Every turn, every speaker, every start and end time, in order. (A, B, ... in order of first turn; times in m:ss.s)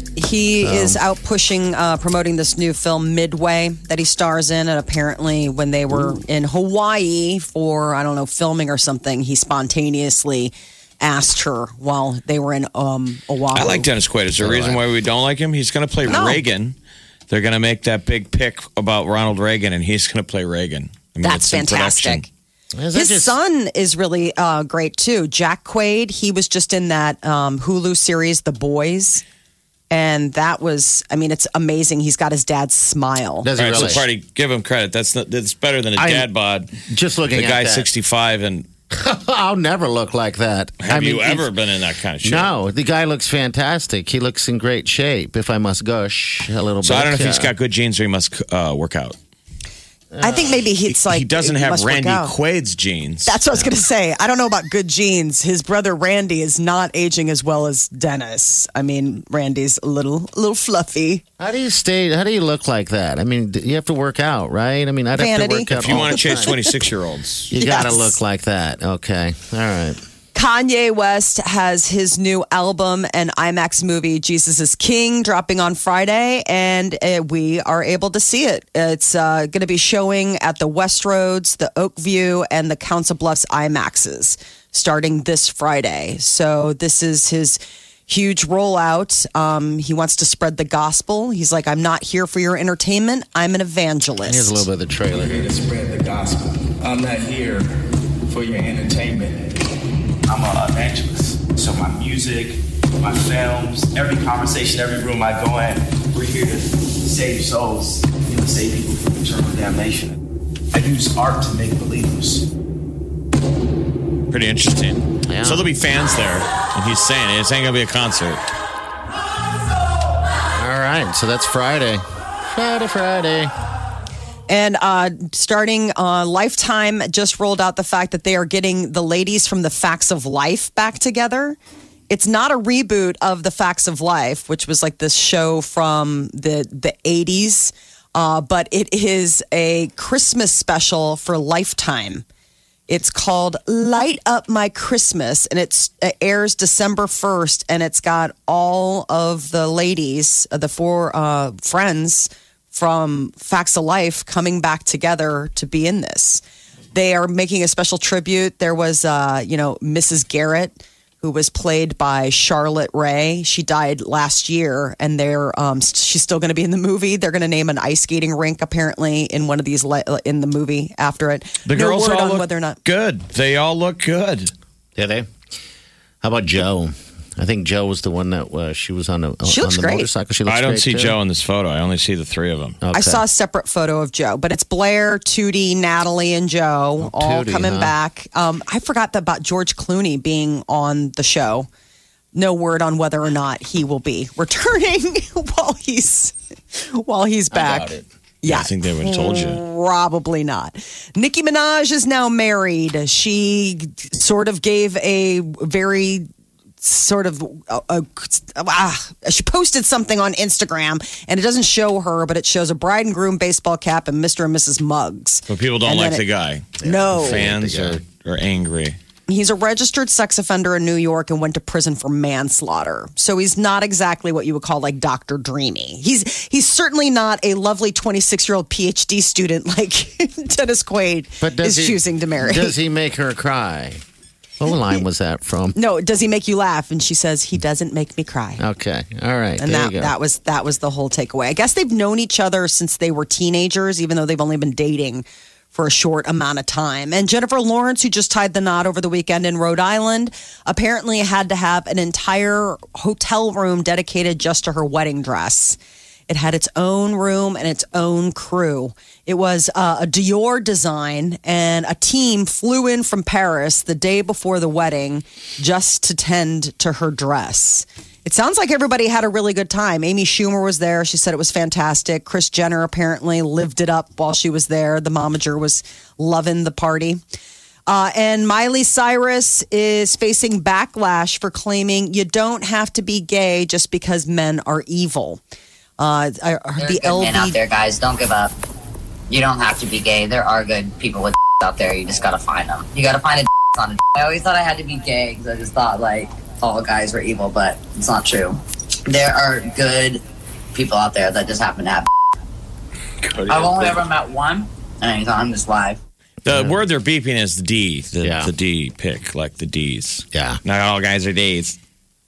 0:00.2-0:13.9 A
0:00.6-0:01.0 B
0:13.5-0:16.8 C
0:14.4-0:14.8 B
0:16.0-0:16.4 A
0:17.3-0:22.3 C
0:21.2-0:22.3 A
0:22.7-0:23.4 B
0:22.9-0:29.2 A
0:29.9-0:33.5 A
0:33.4-0:34.1 B
0:33.6-0:36.7 C
0:36.0-0:36.3 B
0:36.9-0:37.9 B
0:37.3-0:38.7 C
0:38.9-0:41.5 B
0:40.8-0:42.5 C
0:42.2-0:47.5 B
0:46.8-0:49.2 C
0:50.1-0:50.6 B
0:50.2-0:52.3 A
0:50.9-0:53.7 C
0:53.2-1:01.2 A
1:01.4-1:06.6 B
1:05.1-1:06.6 A
1:05.8-1:07.5 C
1:07.5-1:10.0 B
1:07.5-1:08.2 A
1:10.3-1:34.6 A
1:34.2-1:35.5 B
1:35.1-1:37.7 D
1:38.3-1:39.5 D
1:40.3-1:50.2 D
1:50.7-1:52.5 D
1:54.3-1:58.4 C
1:55.3-1:55.7 B
2:00.6-2:03.5 B
2:04.5-2:11.6 A
2:12.1-2:22.2 A
2:22.9-2:36.4 A
2:36.9-2:52.8 A
2:51.6-2:54.5 C
2:55.0-2:55.3 B
2:56.2-3:01.2 B
2:59.4-3:00.1 A
3:00.4-3:02.8 C
3:02.8-3:03.2 B
3:02.9-3:11.7 A
3:07.0-3:08.0 B
3:12.3-3:17.9 A
3:17.5-3:18.0 B
3:18.4-3:26.2 A
3:18.4-3:19.6 C
3:26.8-3:36.2 A
3:35.5-3:39.0 C
3:36.8-3:38.0 B
3:36.8-3:37.5 A
3:39.3-3:52.8 A
3:51.4-3:54.0 B
3:54.6-3:55.8 B
3:55.7-3:58.6 A
3:58.6-4:00.1 B
3:59.6-4:37.2 A
4:37.9-4:45.4 A
4:46.0-4:47.6 A
4:46.8-4:48.5 E
4:49.3-5:00.2 E
5:00.7-5:02.1 E
5:03.4-5:04.0 C
5:03.4-5:06.0 E
5:06.4-5:11.8 C
5:06.4-5:06.8 B
5:08.2-5:08.5 B
5:10.3-5:10.6 B